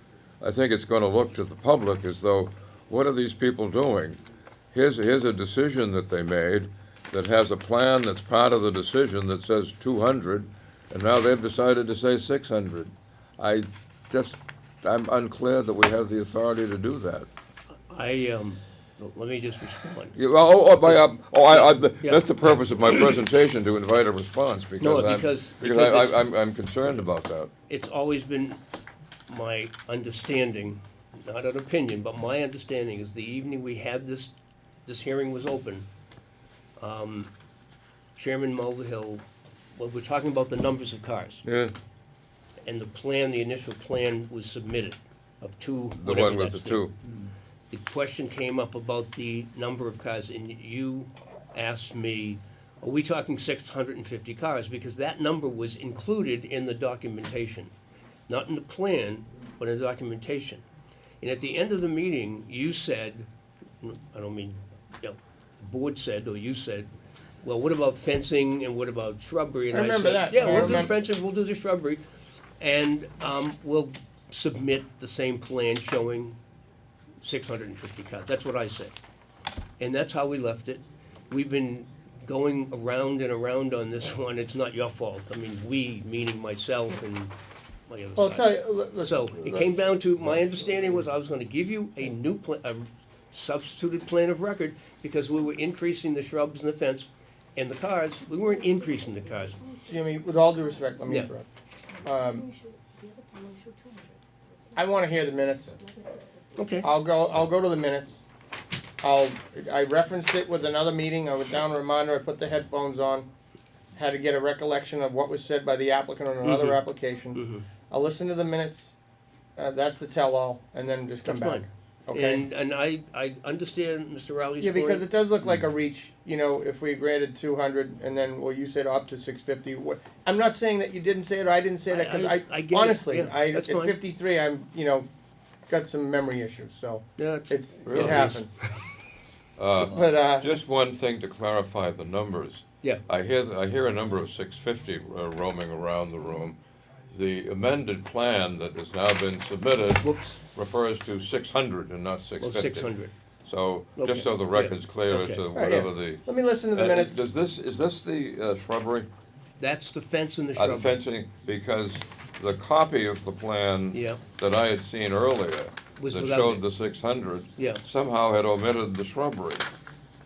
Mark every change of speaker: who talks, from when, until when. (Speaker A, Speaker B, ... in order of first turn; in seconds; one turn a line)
Speaker A: 0.4-4.2
Speaker A: 4.7-17.3
Speaker B: 17.9-20.2
Speaker A: 20.1-27.5
Speaker B: 20.8-22.4
Speaker B: 24.8-26.2
Speaker B: 27.7-28.6
Speaker B: 29.3-34.3
Speaker B: 34.9-35.9
Speaker B: 36.8-37.3
Speaker B: 38.1-39.2
Speaker B: 39.8-41.4
Speaker A: 41.4-41.7
Speaker B: 42.6-46.9
Speaker A: 46.0-46.9
Speaker B: 47.7-57.7
Speaker B: 58.3-60.6
Speaker B: 61.2-63.3
Speaker B: 63.8-66.9
Speaker B: 67.4-72.0
Speaker C: 69.7-70.9
Speaker B: 72.6-76.4
Speaker B: 77.2-78.9
Speaker B: 79.8-87.3
Speaker B: 87.9-99.6
Speaker C: 88.2-89.7
Speaker D: 98.3-101.1
Speaker C: 99.9-101.5
Speaker D: 101.9-106.6
Speaker C: 102.0-102.5
Speaker C: 104.8-105.7
Speaker B: 106.5-106.9
Speaker C: 106.8-108.2
Speaker C: 109.0-113.3
Speaker C: 113.9-118.9
Speaker B: 116.4-116.8
Speaker B: 117.3-117.7
Speaker C: 119.6-122.4
Speaker B: 121.2-125.1
Speaker C: 124.6-135.1
Speaker B: 131.9-134.0
Speaker C: 135.7-138.6
Speaker B: 137.2-138.7
Speaker A: 137.8-138.4
Speaker A: 139.6-146.6
Speaker C: 139.8-140.5
Speaker A: 147.1-152.9
Speaker B: 150.0-150.4
Speaker B: 152.4-153.1
Speaker A: 153.4-159.1
Speaker B: 153.9-155.4
Speaker C: 155.5-157.2
Speaker B: 159.6-161.0
Speaker A: 160.6-169.7
Speaker B: 163.9-164.2
Speaker B: 166.0-166.6
Speaker B: 167.6-167.8